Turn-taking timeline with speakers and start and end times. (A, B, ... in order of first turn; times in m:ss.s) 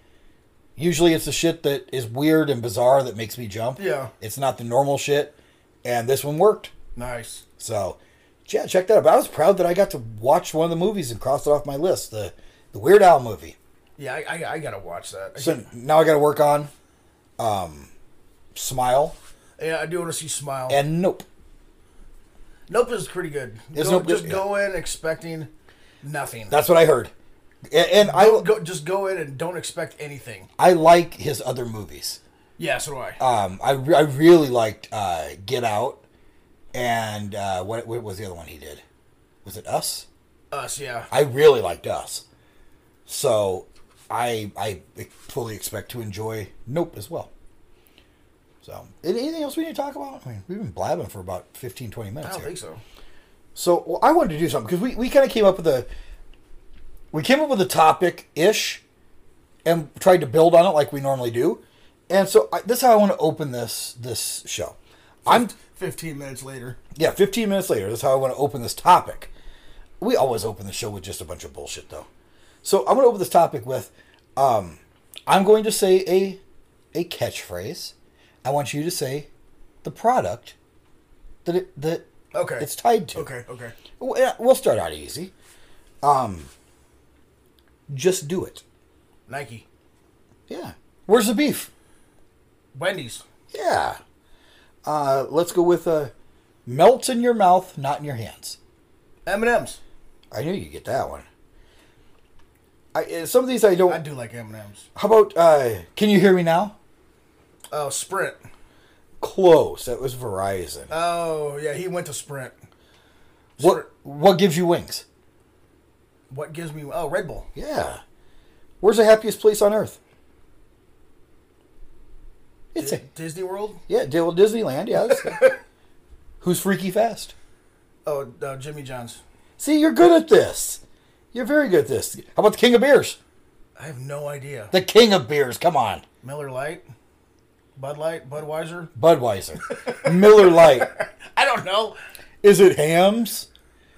0:00.8-0:06.7 A
0:03.8-0:04.1 B
0:07.0-0:07.4 B
0:07.6-0:13.6 A
0:14.0-0:15.7 B
0:15.4-0:16.7 A
0:17.4-0:17.9 A
0:18.5-0:19.2 A
0:19.6-0:20.8 B
0:20.7-0:21.3 A
0:22.7-0:25.5 B
0:23.7-0:24.5 A
0:26.0-0:26.6 B
0:26.5-0:27.1 A
0:27.7-0:28.5 A
0:28.0-0:30.5 B
0:30.6-0:32.2 A
0:32.6-0:33.2 B
0:33.2-0:36.0 A
0:36.7-0:38.8 A
0:39.4-0:40.1 A
0:40.5-0:41.1 B
0:41.1-0:42.2 A
0:43.1-0:47.3 A
0:48.6-0:52.5 A
0:52.2-0:52.8 B
0:53.6-0:55.9 A
0:57.1-0:58.8 A
0:59.6-1:05.5 A
1:05.3-1:06.8 B
1:07.0-1:09.3 A
1:10.0-1:12.1 A
1:12.6-1:16.4 A
1:16.9-1:19.3 A
1:19.8-1:20.6 A
1:21.4-1:22.1 A
1:22.3-1:23.8 B
1:22.6-1:23.3 A
1:24.0-1:25.3 A
1:26.0-1:26.5 A
1:27.9-1:28.6 A
1:29.3-1:29.7 B
1:30.5-1:31.7 A
1:32.8-1:33.2 B
1:33.5-1:34.0 A
1:34.8-1:36.1 A
1:36.7-1:38.6 A
1:39.3-1:39.8 B
1:40.3-1:41.3 A
1:42.9-1:44.0 A
1:43.9-1:44.9 B
1:45.0-1:46.8 A
1:47.7-1:48.4 B
1:49.2-1:50.9 A
1:50.9-1:52.6 B
1:53.6-1:53.9 B
1:53.6-1:55.0 A
1:56.3-1:57.5 B
1:57.6-1:58.0 A
1:58.8-2:00.0 A
2:02.8-2:03.0 A
2:02.8-2:03.8 B
2:03.9-2:05.4 A
2:05.0-2:05.6 B
2:06.4-2:07.3 A
2:08.0-2:09.2 B
2:09.6-2:10.8 A
2:11.3-2:13.2 A
2:13.8-2:14.7 B
2:14.7-2:16.0 A
2:16.2-2:16.8 B
2:17.8-2:18.9 B
2:19.0-2:20.9 A
2:19.7-2:22.0 B
2:22.4-2:23.5 A